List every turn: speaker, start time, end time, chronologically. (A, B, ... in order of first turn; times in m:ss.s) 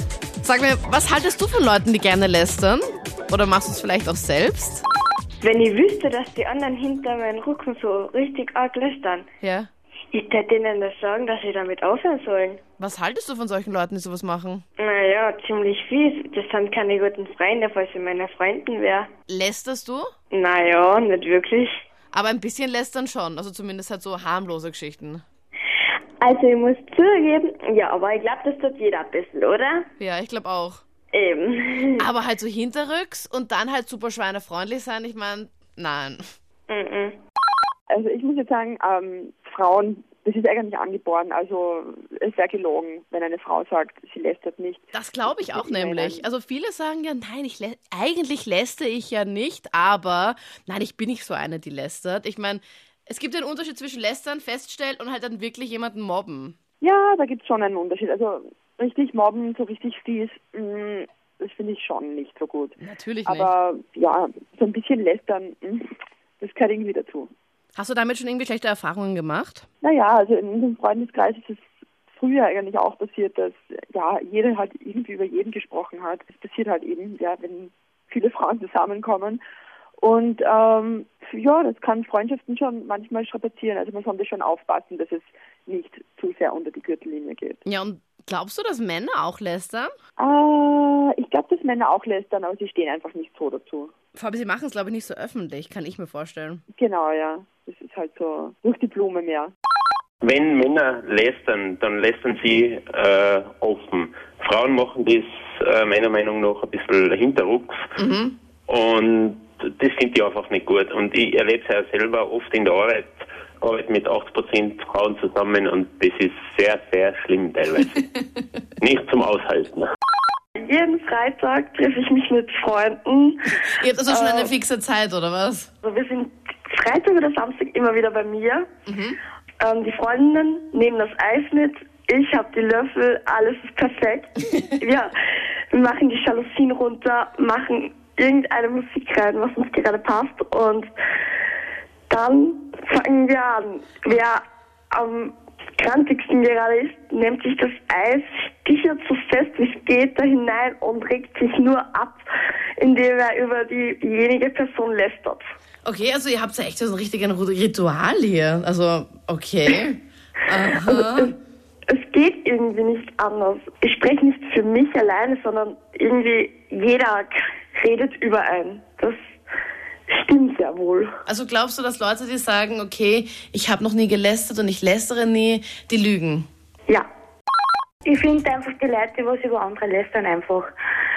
0:00.4-0:04.8 A
0:05.4-0:09.3 B
0:09.4-0:09.7 A
0:10.1-0:12.6 B
0:12.8-0:14.6 A
0:14.8-0:19.1 B
0:19.3-0:20.1 A
0:20.3-0:21.8 B
0:22.1-0:25.2 A
0:26.2-0:29.9 B
0:30.0-0:30.8 A
0:31.1-0:32.1 B
0:32.0-0:36.2 A
0:36.7-0:37.2 B
0:37.9-0:44.8 C
0:44.9-0:56.6 A
0:45.5-0:46.2 C
0:56.8-1:02.7 C
1:02.8-1:03.5 A
1:03.3-1:05.8 C
1:06.4-1:07.3 C
1:07.7-1:09.6 A
1:09.8-1:11.6 C
1:12.1-1:19.4 C
1:20.0-1:27.5 C
1:27.6-1:29.9 A
1:30.2-1:33.9 C
1:34.1-1:36.6 A
1:36.8-1:39.4 C
1:40.2-1:47.8 D
1:48.0-1:48.3 A
1:48.7-1:58.0 D
1:58.8-1:59.9 D
2:00.6-2:04.5 B
2:03.6-2:05.7 A
2:05.8-2:08.7 B
2:08.9-2:09.2 A
2:09.6-2:15.1 B
2:15.7-2:20.9 B
2:22.1-2:32.2 B
2:32.8-2:35.5 B
2:35.8-2:41.3 A
2:40.7-2:41.3 B
2:41.9-2:49.3 B
2:50.1-2:51.2 B
2:51.3-2:56.5 A
2:58.0-3:00.7 E